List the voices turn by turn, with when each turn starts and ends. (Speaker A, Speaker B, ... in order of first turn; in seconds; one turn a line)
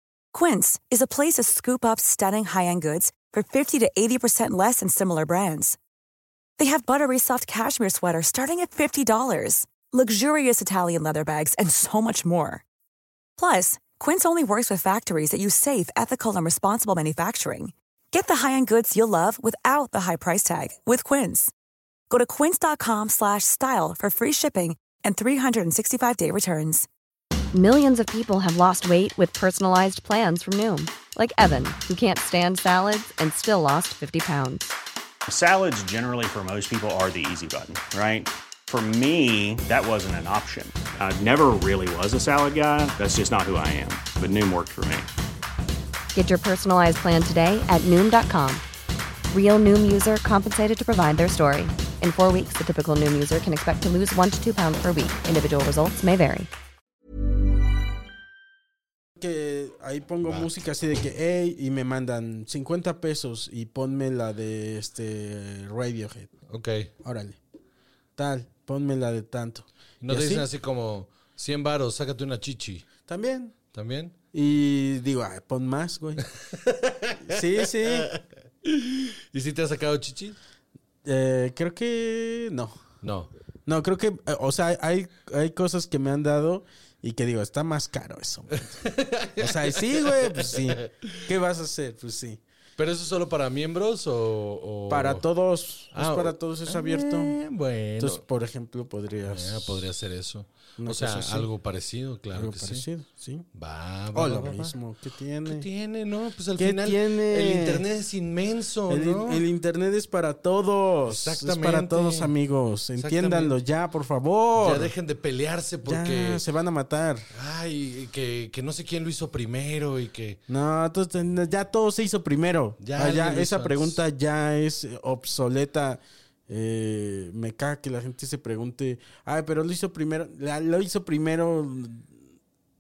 Speaker A: 0.3-5.8
Speaker A: 6.6-12.6
Speaker A: 13.4-21.5
Speaker A: 22.1-26.9
Speaker B: 27.5-34.6
Speaker C: 35.3-45.1
Speaker B: 46.1-48.6
Speaker B: 49.3-56.5
Speaker D: 59.2-66.3
Speaker E: 66.5-66.9
Speaker D: 67.0-67.4
Speaker D: 68.2-70.5
Speaker E: 70.0-72.9
Speaker D: 73.1-73.5
Speaker E: 73.7-74.1
Speaker D: 74.3-76.2
Speaker E: 76.5-80.4
Speaker D: 77.2-78.1
Speaker D: 81.0-82.8
Speaker E: 83.0-83.3
Speaker D: 83.7-88.7
Speaker E: 88.5-91.2
Speaker D: 89.4-92.4
Speaker E: 92.8-95.2
Speaker D: 94.9-97.4
Speaker E: 95.9-98.2
Speaker D: 98.0-99.8
Speaker E: 99.3-102.8
Speaker D: 100.8-101.5
Speaker D: 102.3-103.5
Speaker E: 103.6-104.7
Speaker D: 104.1-105.7
Speaker E: 105.5-109.4
Speaker D: 106.6-107.8
Speaker D: 108.9-114.9
Speaker E: 111.1-112.3
Speaker E: 113.0-113.5
Speaker E: 114.6-116.4
Speaker D: 115.8-117.3
Speaker E: 117.3-120.4
Speaker D: 120.5-132.2
Speaker E: 122.8-124.0